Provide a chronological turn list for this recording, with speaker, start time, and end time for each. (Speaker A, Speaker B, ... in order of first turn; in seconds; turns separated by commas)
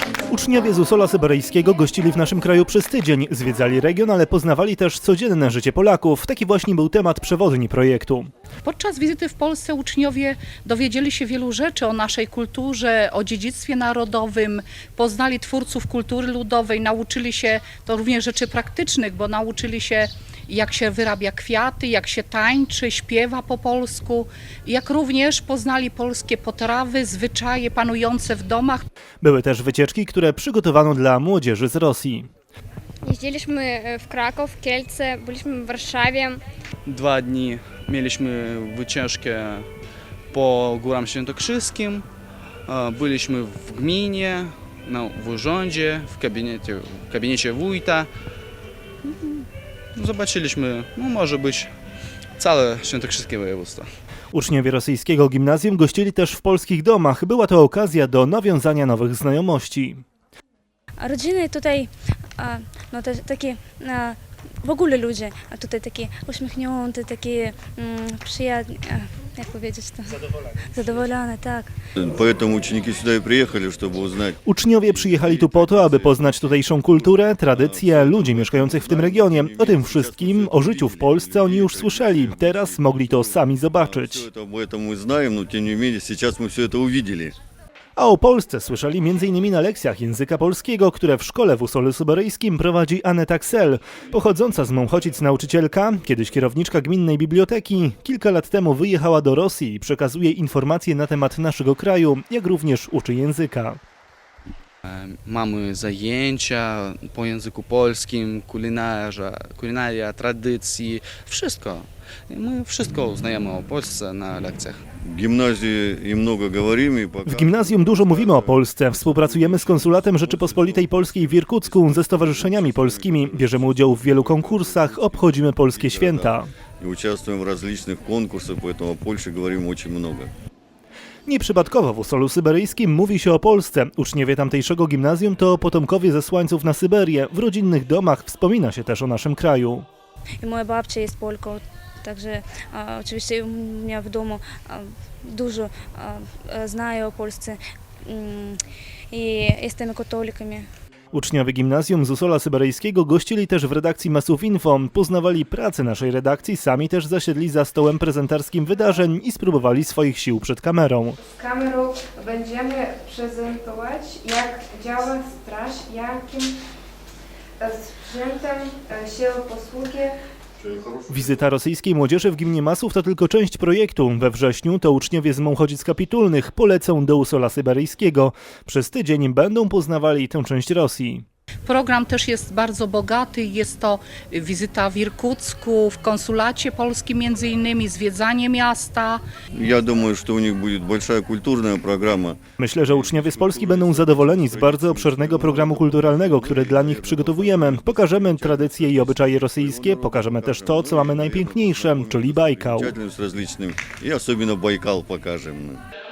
Speaker A: 0.3-8.3, Speaker B: 8.6-28.9, Speaker A: 29.2-32.3, Speaker C: 33.0-36.4, Speaker D: 36.9-39.7, Speaker D: 40.3-42.0, Speaker D: 42.7-48.1, Speaker D: 49.0-51.7, Speaker D: 52.4-53.9, Speaker A: 54.3-60.0, Speaker E: 61.0-71.7, Speaker F: 72.0-87.3, Speaker A: 74.5-84.3, Speaker A: 88.0-103.8, Speaker D: 104.9-114.8, Speaker F: 115.0-130.3, Speaker A: 117.3-126.5, Speaker A: 131.3-139.9, Speaker E: 140.4-150.7, Speaker A: 151.1-161.2, Speaker G: 161.2-166.5, Speaker G: 167.6-170.2, Speaker F: 170.6-171.3, Speaker A: 171.1-181.2, Speaker B: 181.7-189.2, Speaker F: 189.5-205.8, Speaker A: 192.6-202.9